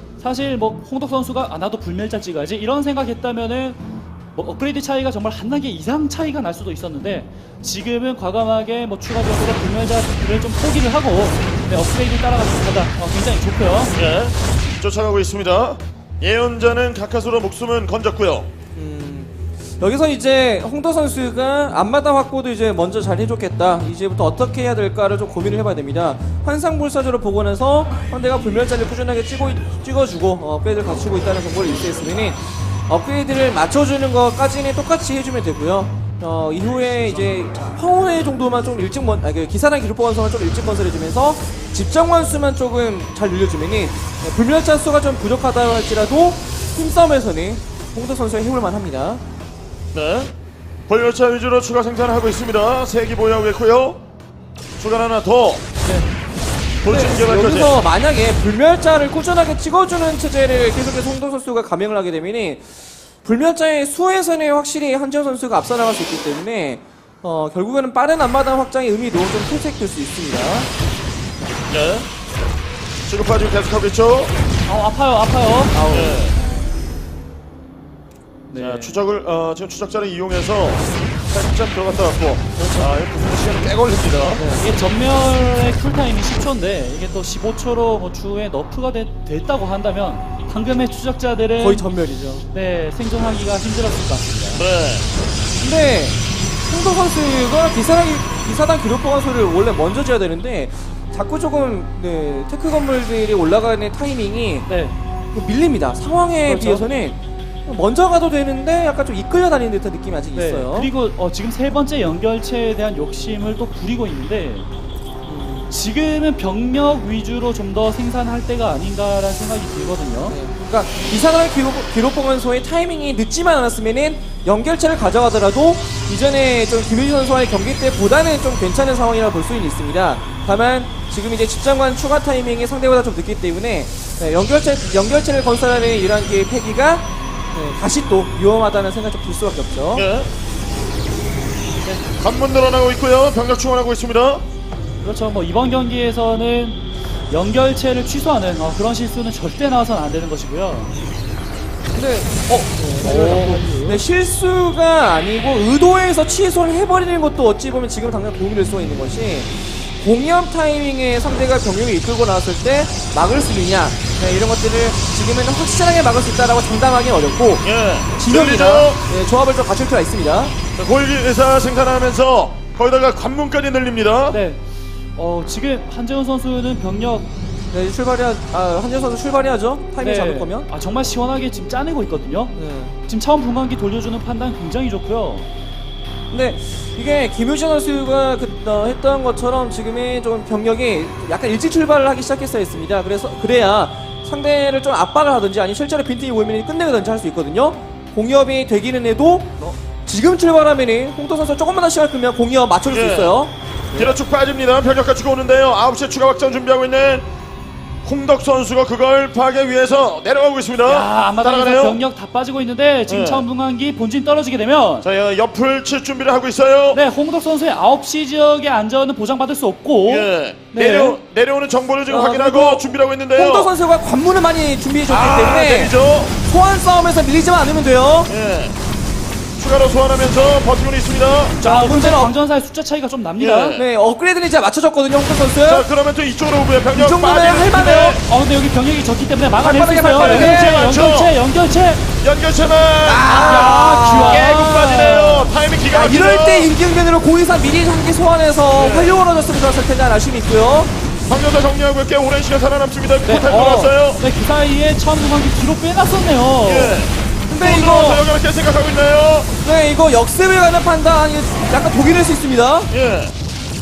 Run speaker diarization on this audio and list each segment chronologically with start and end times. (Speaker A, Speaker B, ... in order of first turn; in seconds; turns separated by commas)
Speaker A: 0.2-3.8, Speaker A: 4.3-13.9, Speaker B: 13.9-18.5, Speaker C: 18.7-49.2, Speaker B: 49.9-50.3, Speaker B: 50.9-54.0, Speaker B: 54.8-55.7, Speaker B: 56.8-57.7, Speaker C: 56.8-62.6, Speaker C: 63.2-70.7, Speaker B: 71.7-72.1, Speaker B: 73.0-74.3, Speaker A: 74.7-76.2, Speaker C: 75.8-76.1, Speaker B: 75.9-76.3, Speaker A: 78.5-79.0, Speaker B: 78.5-84.4, Speaker A: 82.6-82.9, Speaker A: 84.3-91.8, Speaker C: 84.3-84.6, Speaker C: 91.6-92.5, Speaker A: 92.5-94.6, Speaker B: 94.5-95.0, Speaker C: 95.6-104.7, Speaker A: 104.7-105.0, Speaker C: 105.3-110.9, Speaker A: 106.4-106.8, Speaker A: 110.3-114.7, Speaker C: 115.2-115.7, Speaker A: 115.7-120.4, Speaker C: 120.3-140.1, Speaker B: 139.9-140.3, Speaker B: 142.2-144.4, Speaker A: 145.0-150.9, Speaker C: 151.9-167.6, Speaker A: 152.5-154.0, Speaker B: 167.6-169.0, Speaker C: 168.2-170.5, Speaker B: 170.8-174.4, Speaker A: 174.3-174.6, Speaker A: 175.2-177.3, Speaker C: 177.7-180.7, Speaker A: 180.0-182.6, Speaker C: 182.6-182.9, Speaker A: 183.1-185.5, Speaker C: 186.3-204.1, Speaker B: 202.9-203.3, Speaker B: 203.9-207.2, Speaker B: 208.0-212.0, Speaker A: 210.8-215.1, Speaker B: 213.1-213.4, Speaker B: 215.0-217.0, Speaker A: 216.9-221.2, Speaker B: 220.1-223.7, Speaker C: 222.1-228.3, Speaker B: 225.1-226.3, Speaker B: 228.3-228.8, Speaker B: 229.6-231.6, Speaker C: 231.6-232.3, Speaker A: 231.6-233.8, Speaker B: 233.4-233.8, Speaker C: 233.7-235.9, Speaker B: 235.6-238.2, Speaker C: 236.9-238.2, Speaker A: 238.2-242.1, Speaker C: 239.6-240.9, Speaker B: 240.1-241.3, Speaker B: 242.2-246.7, Speaker C: 243.0-245.1, Speaker A: 243.4-245.5, Speaker C: 245.9-250.9, Speaker B: 248.7-249.2, Speaker B: 251.3-254.2, Speaker A: 253.2-257.0, Speaker B: 256.6-259.5, Speaker C: 257.5-258.2, Speaker C: 259.6-262.9, Speaker B: 262.9-263.3